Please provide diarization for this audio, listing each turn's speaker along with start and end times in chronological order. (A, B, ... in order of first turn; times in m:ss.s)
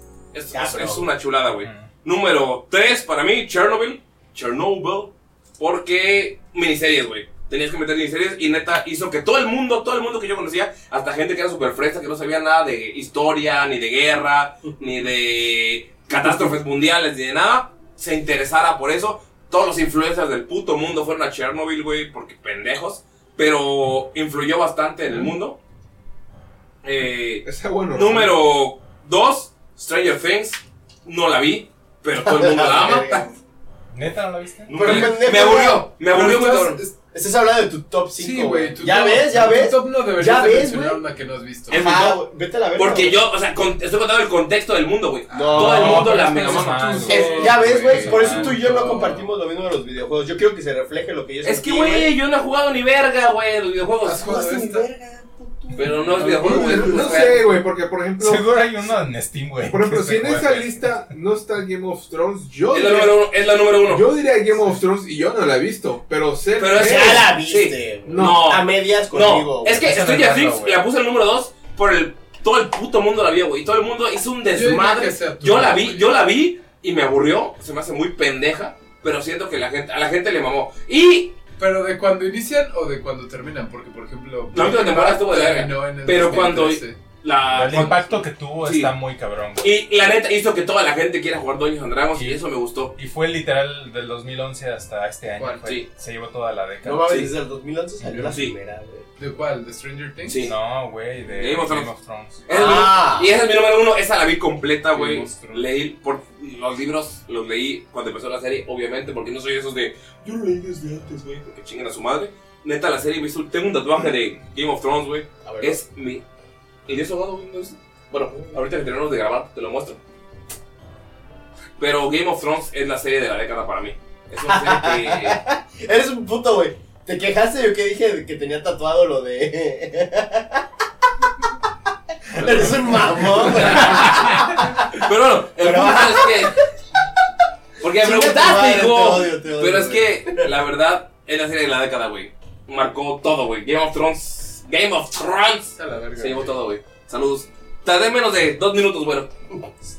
0:00.3-0:25.6 A
0:00.5-0:01.1 B
0:01.6-0:01.9 C
0:26.8-0:33.2 A
0:27.4-0:28.4 D
0:32.1-0:33.3 B
0:33.9-0:35.0 C
0:34.7-0:35.9 B
0:34.7-0:36.8 A
0:34.8-0:35.1 E
0:36.1-0:36.9 E
0:37.1-0:41.0 B
0:38.2-0:41.9 E
0:41.7-0:42.2 A
0:41.7-0:43.2 B
0:42.7-0:47.5 A
0:45.3-0:46.1 B
0:45.3-0:49.3 E
0:45.5-0:48.5 C
0:47.1-0:52.1 B
0:51.4-0:54.8 A
0:54.0-0:54.9 E
0:54.2-0:57.3 B
0:55.7-0:57.6 A
0:56.1-0:56.9 E
0:56.2-0:58.7 D
0:58.2-1:00.9 C
0:59.6-1:03.2 D
1:02.7-1:04.2 A
1:03.8-1:07.4 D
1:06.6-1:21.4 A
1:06.7-1:09.9 B
1:08.0-1:08.6 D
1:09.8-1:10.8 C
1:14.5-1:16.1 E
1:21.6-1:27.0 E
1:24.5-1:28.9 A
1:27.5-1:29.7 C
1:29.6-1:32.9 A
1:32.1-1:32.4 C
1:32.9-1:37.2 C
1:35.4-1:35.9 A
1:36.8-1:39.0 B
1:38.0-1:38.4 E
1:38.2-1:38.5 A
1:39.2-1:40.4 E
1:40.3-1:40.5 A
1:40.4-1:42.4 C
1:41.3-1:41.9 A
1:42.5-1:56.2 A
1:42.5-1:43.3 B
1:44.9-1:45.7 E
1:55.4-1:55.8 B
1:56.8-2:00.0 A
2:01.8-2:05.4 A
2:04.4-2:10.6 B
2:12.3-2:15.0 B
2:12.4-2:16.6 A
2:15.6-2:16.6 B
2:17.8-2:29.3 A
2:17.8-2:20.5 B
2:25.7-2:26.6 E